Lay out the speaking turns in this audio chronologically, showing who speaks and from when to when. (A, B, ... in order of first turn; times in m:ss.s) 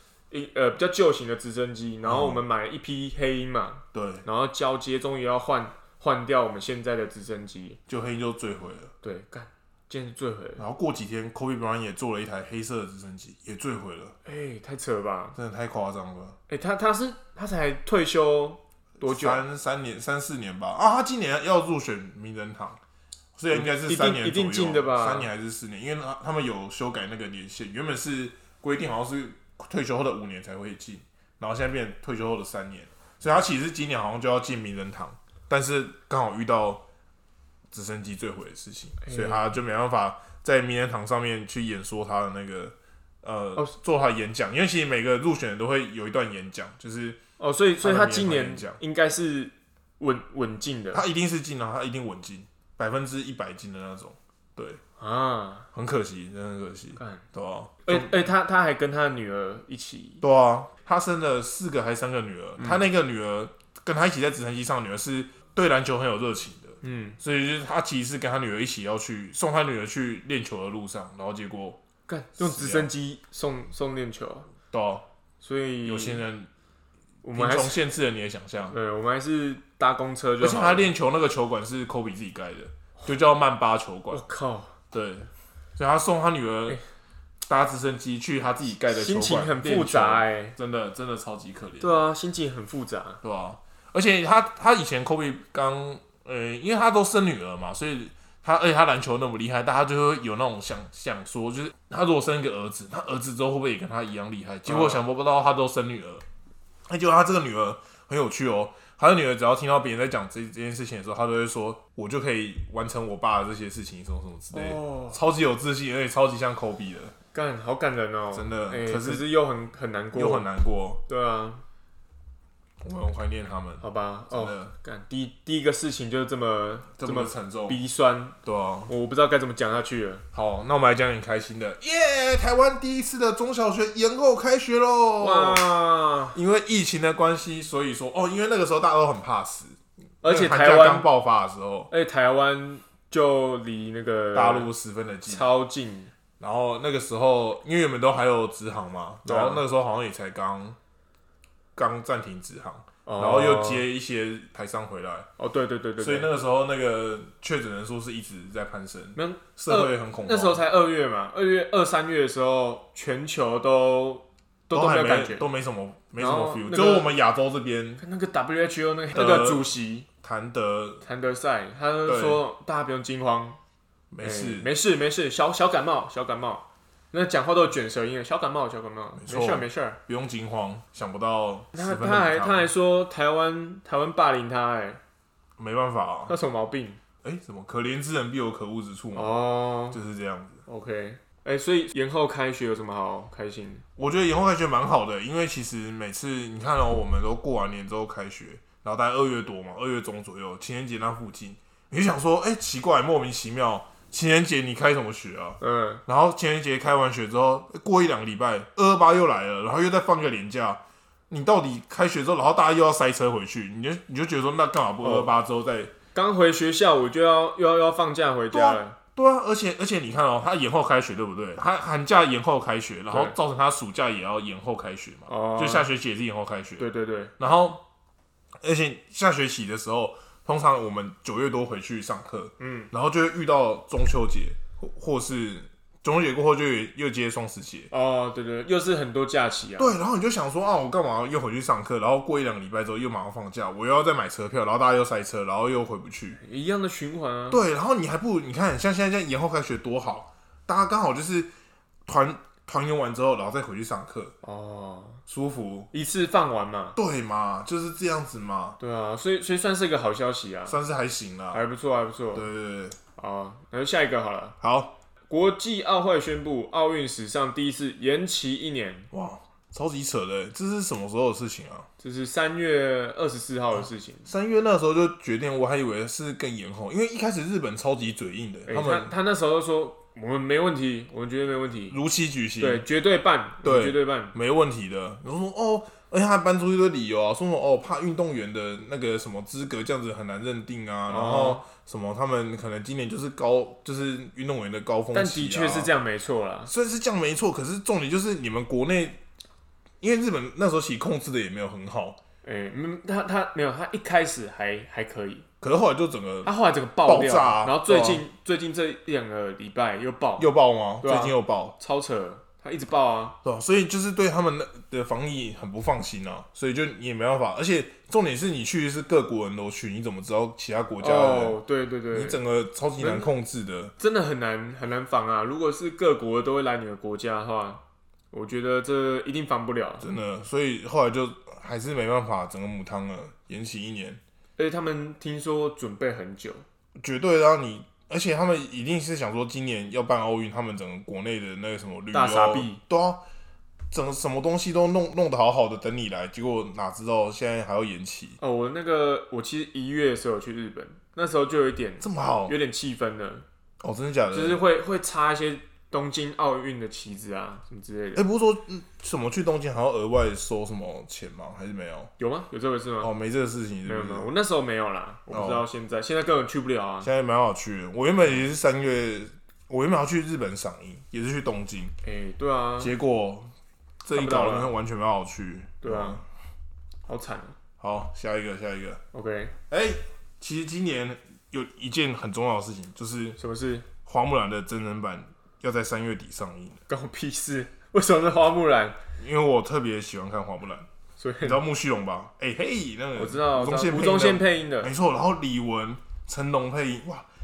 0:00.3-0:07.8 A
0:02.0-0:02.4 B
0:03.9-0:04.2 B
0:07.9-0:08.9 B
0:09.0-0:10.6 A
0:10.6-0:14.2 B
0:14.2-0:15.4 A
0:15.3-0:16.4 B
0:16.5-0:19.4 A
0:19.0-0:22.8 B
0:23.4-0:36.8 B
0:23.5-0:25.3 A
0:37.7-0:47.2 B
0:39.0-0:39.4 A
0:47.4-0:51.0 A
0:47.8-0:48.8 B
0:50.9-0:54.8 B
0:55.0-0:55.7 A
0:55.7-0:58.2 B
0:57.0-0:57.2 A
0:57.8-1:00.2 A
1:00.2-1:11.8 B
1:06.8-1:07.2 A
1:12.1-1:14.5 A
1:12.4-1:12.9 B
1:14.7-1:15.0 B
1:15.4-1:16.2 A
1:15.8-1:16.5 B
1:17.2-1:17.8 A
1:17.3-1:18.8 B
1:18.7-1:20.9 A
1:20.4-1:24.2 B
1:24.1-1:24.7 A
1:24.9-1:26.8 B
1:27.4-1:32.0 B
1:28.9-1:30.6 A
1:31.8-1:33.2 A
1:33.2-1:46.2 B
1:44.7-1:45.0 A
1:46.9-1:57.1 B
1:54.5-1:55.2 A
1:57.3-2:00.5 A
1:58.3-1:59.3 B
2:00.1-2:01.0 B
2:01.1-2:01.6 A
2:02.8-2:04.7 B
2:03.8-2:08.4 A
2:07.0-2:07.8 B
2:08.4-2:08.9 B
2:08.9-2:10.2 A
2:10.3-2:15.6 B
2:15.2-2:16.4 A
2:16.3-2:21.9 B
2:20.2-2:21.1 A
2:21.9-2:24.7 A
2:24.3-2:25.5 B
2:25.3-2:26.1 A
2:26.4-2:30.8 B
2:29.2-2:29.6 A
2:31.8-2:35.3 B
2:33.0-2:33.8 A
2:35.4-2:36.3 A
2:36.0-2:40.6 B
2:39.2-2:45.4 A
2:44.7-2:48.0 B
2:46.2-2:47.1 A
2:48.0-2:50.1 A
2:49.1-2:49.7 B
2:50.2-2:51.0 B
2:51.0-2:53.6 A
2:52.0-2:52.4 B
2:54.1-2:54.7 B
2:54.2-3:00.0 A
2:59.2-3:02.7 B
3:01.7-3:05.0 A
3:05.6-3:06.3 B
3:06.3-3:07.0 A
3:07.2-3:09.3 B
3:09.1-3:10.0 A
3:09.9-3:10.6 B
3:10.7-3:13.8 A
3:14.0-3:35.9 B
3:25.6-3:26.0 A
3:35.0-3:35.3 A
3:36.1-3:39.0 A
3:38.5-3:46.8 B
3:45.3-3:45.9 A
3:46.8-3:47.3 A
3:47.4-3:47.8 B
3:48.6-3:57.9 B
3:52.6-3:52.9 A
3:57.9-4:00.0 A
3:59.8-4:06.4 B
4:06.4-4:07.6 A
4:07.5-4:11.5 B
4:12.0-4:14.3 B
4:14.4-4:15.2 A
4:15.3-4:15.9 B
4:15.9-4:17.0 A
4:17.0-4:18.8 B
4:18.8-4:20.8 A
4:20.7-4:21.6 B
4:21.5-4:22.4 A
4:22.3-4:23.0 B
4:23.2-4:24.6 A
4:24.6-4:24.9 B
4:25.3-4:29.1 A
4:29.1-4:31.9 B
4:32.0-4:34.3 A
4:34.2-4:39.1 B
4:38.7-4:42.0 A
4:41.9-4:42.8 B
4:42.6-4:44.3 A
4:43.6-4:55.9 B
4:51.1-4:51.6 A
4:55.1-4:56.7 A
4:56.7-4:59.2 B
5:00.0-5:02.2 B
5:02.4-5:05.4 A
5:05.6-5:06.5 B
5:06.4-5:13.4 A
5:07.0-5:08.2 B
5:10.4-5:11.7 B
5:13.4-5:21.6 B
5:21.0-5:22.4 A
5:22.1-5:23.9 B
5:23.0-5:23.3 A
5:24.0-5:30.1 A
5:30.0-5:34.2 B
5:34.6-5:36.6 A
5:37.0-5:43.2 B
5:42.1-5:42.8 A
5:43.9-5:48.4 B
5:48.4-5:53.4 A
5:52.0-5:52.5 B
5:53.8-5:54.6 B
5:54.3-5:58.2 A
5:58.1-6:02.1 B
6:02.2-6:03.1 A
6:03.0-6:04.3 B
6:03.8-6:07.1 A
6:05.3-6:05.6 B
6:07.0-6:11.9 B
6:12.0-6:12.9 A
6:12.8-6:13.5 B
6:14.0-6:16.2 B
6:14.1-6:14.7 A
6:15.8-6:16.2 A
6:17.1-6:17.6 A
6:17.8-6:19.0 B
6:19.1-6:19.5 A
6:19.7-6:23.4 B
6:23.4-6:23.9 A
6:24.0-6:26.8 B
6:26.9-6:29.0 A
6:29.2-6:30.9 B
6:31.2-6:31.6 A
6:31.4-6:37.2 B
6:33.2-6:34.9 A